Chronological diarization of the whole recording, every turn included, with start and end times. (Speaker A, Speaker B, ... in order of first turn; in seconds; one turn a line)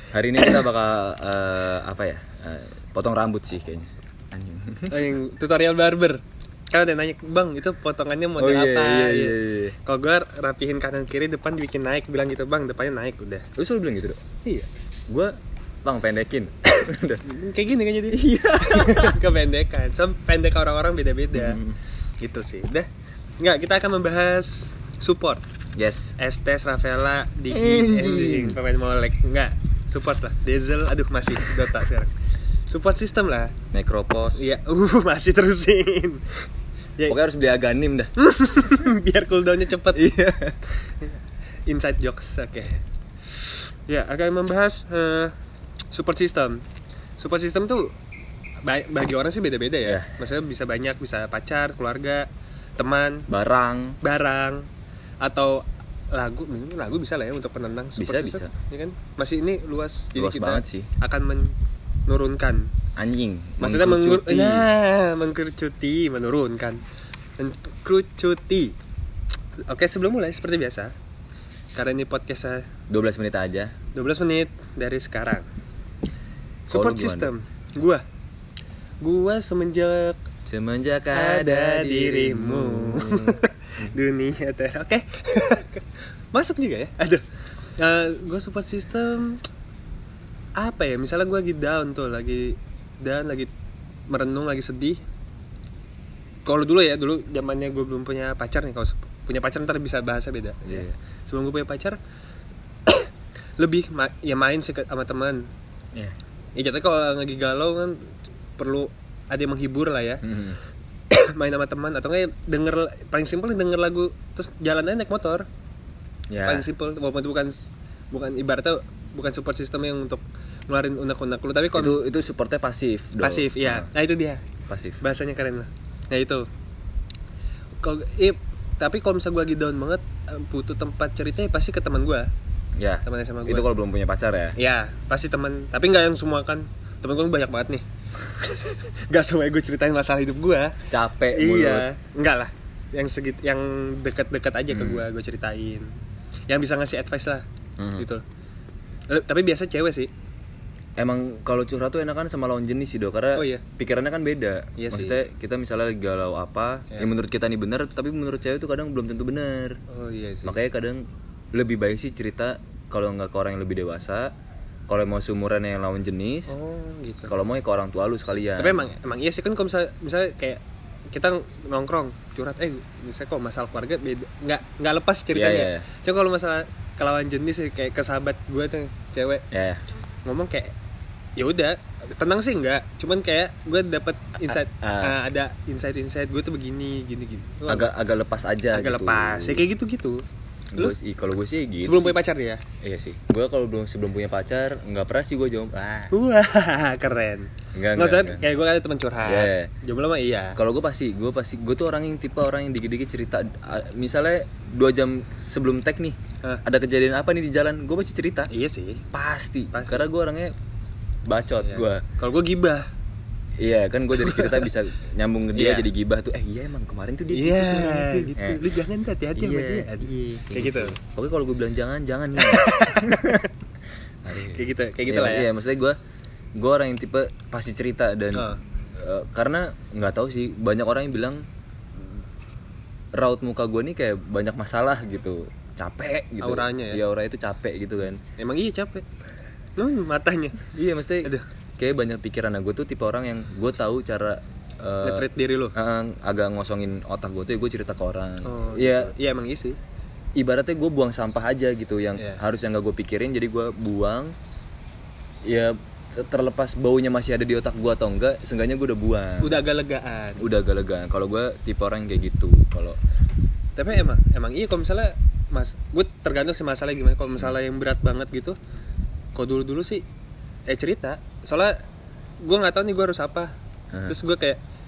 Speaker A: 0.1-5.1
Speaker B: 4.9-13.5
Speaker A: 8.4-9.8
Speaker A: 13.6-14.2
Speaker A: 15.1-17.3
Speaker B: 16.8-21.6
Speaker A: 18.1-19.2
Speaker A: 21.3-21.8
Speaker B: 22.2-22.9
Speaker B: 23.4-25.4
Speaker A: 25.8-26.1
Speaker B: 26.2-32.1
Speaker A: 27.5-28.6
Speaker B: 32.7-33.5
Speaker A: 33.7-34.5
Speaker B: 34.3-36.4
Speaker A: 37.1-38.1
Speaker B: 38.2-40.2
Speaker A: 39.9-40.6
Speaker B: 41.0-42.8
Speaker B: 43.4-45.3
Speaker B: 45.9-46.6
Speaker B: 47.2-47.9
Speaker B: 48.6-52.2
Speaker A: 49.8-50.1
Speaker B: 52.8-53.3
Speaker A: 53.3-54.0
Speaker B: 54.0-54.7
Speaker B: 55.2-61.5
Speaker A: 58.0-58.5
Speaker A: 60.1-60.9
Speaker B: 62.1-62.7
Speaker A: 63.0-64.7
Speaker B: 63.6-66.8
Speaker B: 67.4-68.7
Speaker B: 69.7-70.9
Speaker B: 71.7-72.7
Speaker A: 72.9-73.7
Speaker B: 73.9-75.5
Speaker B: 76.7-78.0
Speaker A: 76.7-77.3
Speaker B: 79.0-80.2
Speaker A: 80.5-83.9
Speaker B: 81.1-87.2
Speaker B: 87.8-89.4
Speaker B: 90.6-93.5
Speaker B: 94.1-95.0
Speaker B: 96.4-102.0
Speaker A: 100.6-100.9
Speaker B: 102.8-105.5
Speaker B: 106.5-110.2
Speaker A: 110.2-110.6
Speaker B: 111.1-115.5
Speaker A: 116.3-116.7
Speaker B: 116.4-122.0
Speaker A: 121.7-123.9
Speaker B: 123.2-124.4
Speaker A: 124.7-125.0
Speaker B: 125.0-126.4
Speaker B: 127.8-132.3
Speaker A: 132.8-134.5
Speaker B: 133.0-133.7
Speaker B: 134.6-140.8
Speaker A: 140.9-141.9
Speaker B: 141.3-145.9
Speaker A: 144.7-145.1
Speaker B: 146.5-147.4
Speaker A: 147.8-148.1
Speaker B: 148.0-148.2
Speaker B: 149.1-150.1
Speaker A: 151.0-159.8
Speaker B: 153.3-153.6
Speaker B: 154.8-155.2
Speaker B: 159.9-160.6
Speaker A: 160.4-164.3
Speaker A: 164.9-166.6
Speaker B: 166.5-167.3
Speaker A: 167.3-168.9
Speaker B: 168.6-179.4
Speaker A: 175.3-175.8
Speaker A: 179.5-179.8
Speaker B: 180.2-180.7
Speaker B: 181.4-187.9
Speaker A: 184.4-185.2
Speaker A: 187.7-189.7
Speaker B: 188.7-190.2
Speaker A: 190.7-192.2
Speaker B: 191.8-192.6
Speaker A: 192.8-196.1
Speaker B: 196.1-200.6
Speaker A: 197.7-198.4
Speaker A: 199.2-199.7
Speaker A: 200.6-208.5
Speaker B: 208.5-209.0
Speaker A: 209.1-210.5
Speaker B: 209.7-210.1
Speaker A: 211.2-212.0
Speaker B: 211.6-212.8
Speaker A: 213.6-218.6
Speaker B: 214.2-214.7
Speaker B: 215.5-215.9
Speaker B: 217.3-220.9
Speaker A: 219.3-223.4
Speaker B: 222.4-223.5
Speaker A: 224.2-226.0
Speaker B: 224.5-225.5
Speaker A: 226.6-231.4
Speaker B: 228.3-228.6
Speaker A: 231.9-232.2
Speaker A: 233.1-238.2
Speaker B: 236.4-237.0
Speaker B: 238.4-239.0
Speaker B: 239.8-240.6
Speaker A: 240.7-249.1
Speaker B: 245.0-245.7
Speaker B: 248.4-249.8
Speaker A: 250.3-254.3
Speaker A: 255.4-259.6
Speaker B: 259.4-260.4
Speaker A: 260.4-263.0
Speaker B: 263.8-268.6
Speaker B: 269.3-270.0
Speaker B: 270.7-271.7
Speaker B: 272.4-273.5
Speaker B: 274.1-274.6